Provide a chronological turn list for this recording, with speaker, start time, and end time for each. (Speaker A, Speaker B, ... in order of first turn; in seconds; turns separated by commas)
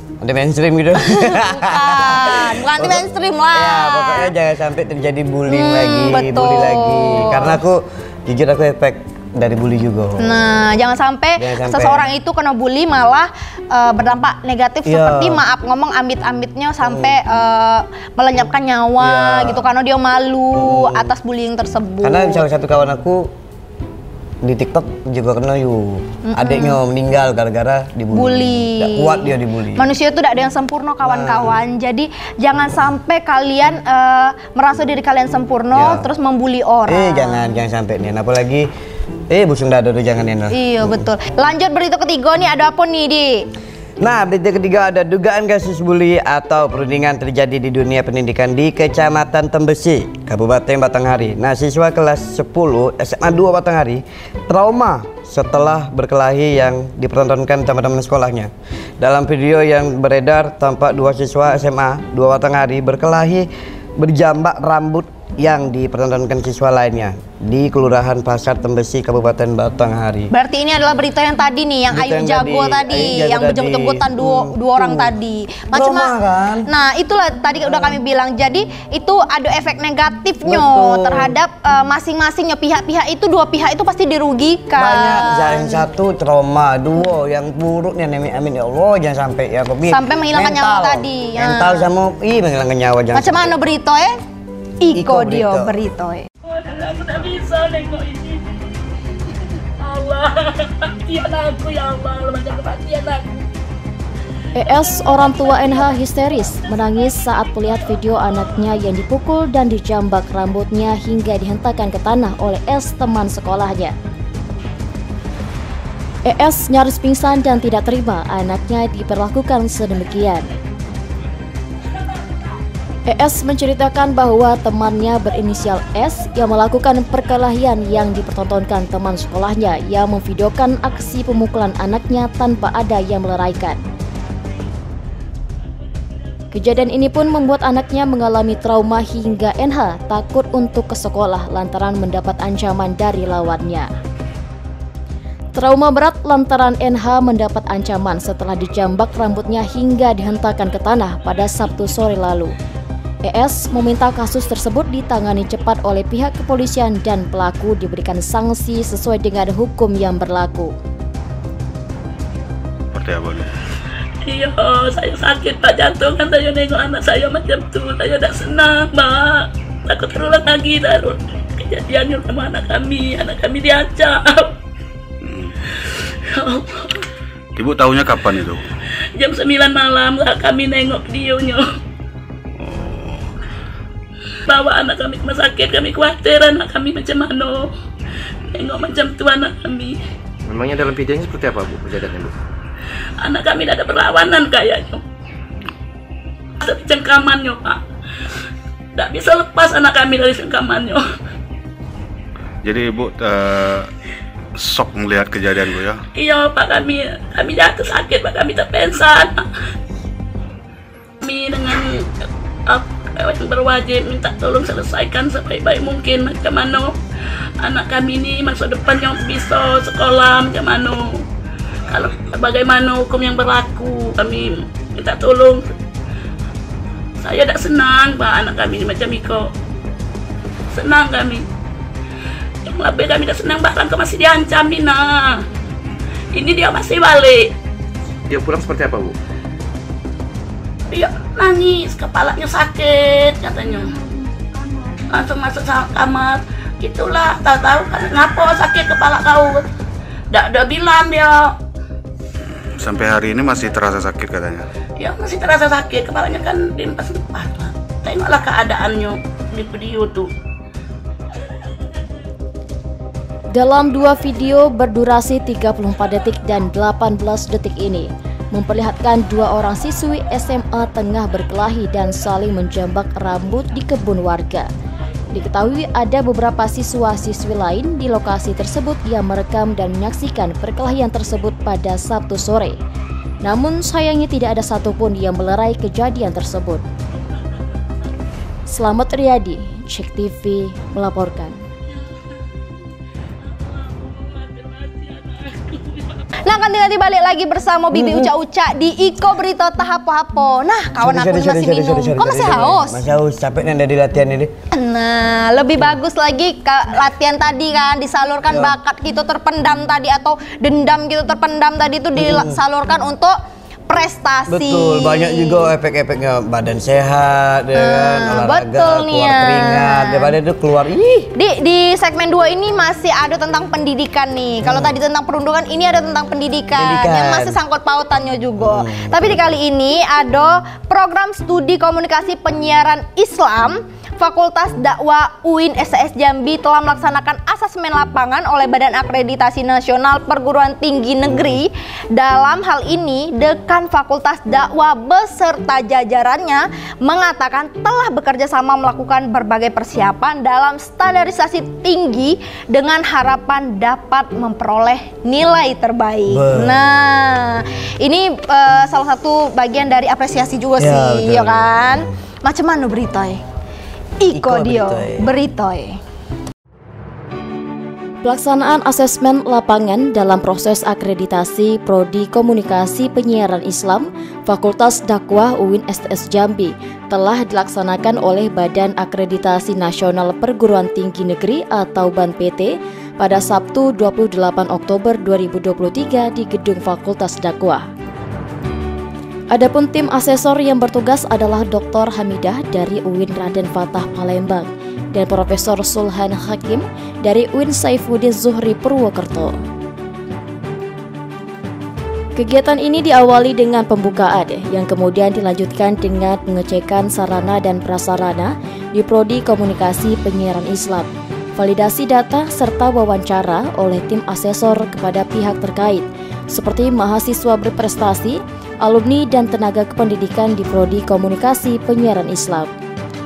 Speaker A: 0.2-3.0, Speaker B: 1.1-4.3, Speaker A: 3.5-10.4, Speaker B: 5.5-7.6, Speaker B: 10.2-22.4, Speaker A: 11.4-12.1, Speaker A: 14.8-15.4, Speaker A: 16.8-17.2, Speaker A: 19.0-19.7, Speaker A: 20.5-21.1, Speaker A: 22.0-23.3, Speaker A: 24.4-29.9, Speaker B: 26.3-26.8, Speaker B: 28.1-37.4, Speaker A: 31.0-31.6, Speaker A: 35.7-36.1, Speaker A: 36.9-38.7, Speaker A: 39.3-41.1, Speaker B: 40.5-43.4, Speaker A: 44.0-70.3, Speaker B: 70.3-76.1, Speaker A: 71.9-75.1, Speaker A: 75.7-76.7, Speaker B: 76.7-85.8, Speaker A: 77.6-78.0, Speaker A: 80.4-81.3, Speaker A: 84.8-93.5, Speaker B: 89.9-91.9, Speaker B: 93.1-94.1, Speaker B: 94.8-96.2, Speaker A: 94.9-95.7, Speaker C: 96.5-98.4, Speaker C: 99.8-103.4, Speaker D: 104.5-113.9, Speaker D: 116.2-120.5, Speaker D: 123.1-133.8, Speaker D: 136.5-143.9, Speaker D: 145.5-152.5, Speaker D: 153.2-160.7, Speaker E: 162.9-163.4, Speaker C: 164.2-174.5, Speaker E: 175.2-175.5, Speaker C: 176.3-177.0, Speaker E: 177.6-178.6, Speaker C: 179.2-181.6, Speaker E: 182.6-183.3, Speaker C: 184.5-187.7, Speaker C: 188.5-190.0, Speaker F: 190.4-192.3, Speaker C: 193.2-195.0, Speaker C: 196.6-197.8, Speaker C: 198.9-201.0, Speaker E: 202.6-203.9, Speaker E: 204.6-206.0, Speaker C: 206.2-209.5, Speaker C: 211.2-212.0, Speaker C: 212.7-216.9, Speaker C: 217.6-221.2, Speaker C: 221.9-225.7, Speaker C: 227.2-229.5, Speaker C: 230.7-231.4, Speaker C: 232.7-235.4, Speaker C: 236.3-237.5, Speaker F: 238.3-239.1, Speaker C: 240.9-243.9, Speaker C: 245.1-249.6, Speaker C: 250.3-251.5, Speaker E: 252.5-254.6, Speaker C: 255.0-260.3, Speaker D: 263.5-274.7, Speaker D: 275.3-282.8, Speaker D: 283.4-286.8, Speaker D: 288.7-291.6, Speaker C: 293.6-296.1, Speaker B: 296.4-303.0, Speaker A: 297.9-298.3, Speaker A: 301.0-304.5, Speaker B: 304.7-313.3, Speaker A: 308.4-308.7, Speaker A: 312.1-312.6, Speaker B: 313.9-315.7, Speaker A: 314.5-321.3, Speaker B: 317.8-320.3, Speaker B: 321.3-363.4, Speaker A: 324.6-324.9, Speaker A: 326.8-327.6, Speaker A: 328.6-329.4, Speaker A: 341.2-341.6, Speaker A: 356.3-356.8, Speaker A: 360.8-362.1, Speaker B: 364.2-366.0, Speaker A: 364.3-365.3, Speaker D: 368.2-387.9, Speaker D: 389.5-399.6, Speaker D: 402.4-422.7